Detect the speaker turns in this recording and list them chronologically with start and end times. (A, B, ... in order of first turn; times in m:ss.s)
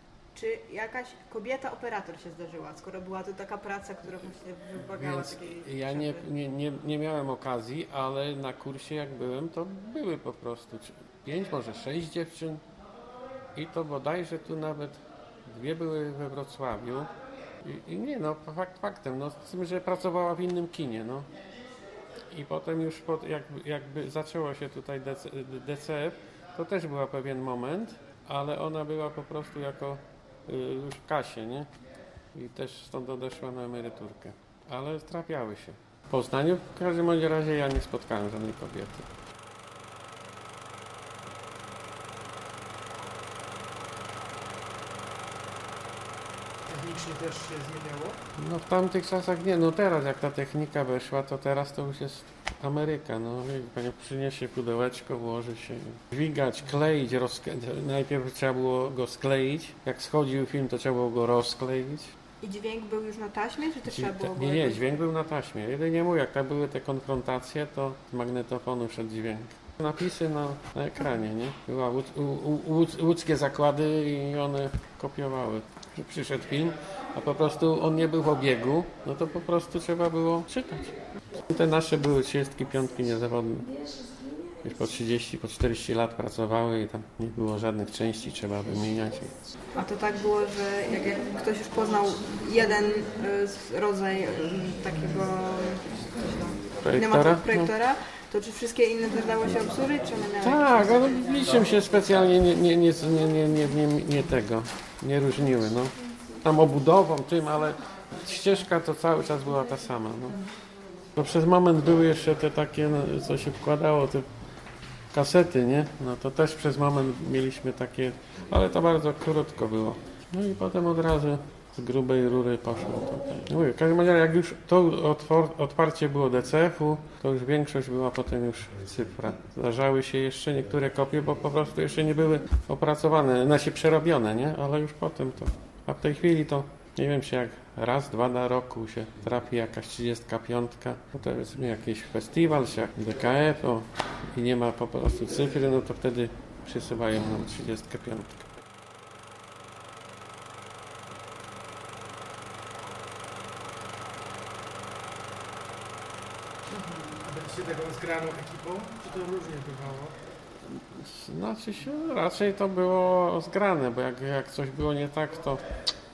0:00.3-0:06.3 A
0:04.8-0:12.6 B
0:13.5-0:17.1 B
0:17.6-0:21.3 B
0:22.3-0:31.7 B
0:32.3-0:39.1 B
0:46.7-0:48.2 C
0:48.4-1:02.1 B
1:02.4-1:04.8 A
1:03.8-1:23.8 B
1:24.6-1:29.3 B
1:29.7-1:41.6 A
1:36.8-1:37.7 B
1:40.4-1:50.4 B
1:51.1-1:54.2 B
1:55.1-2:28.4 B
2:36.7-2:37.1 A
2:37.2-2:40.1 C
2:40.6-2:45.6 B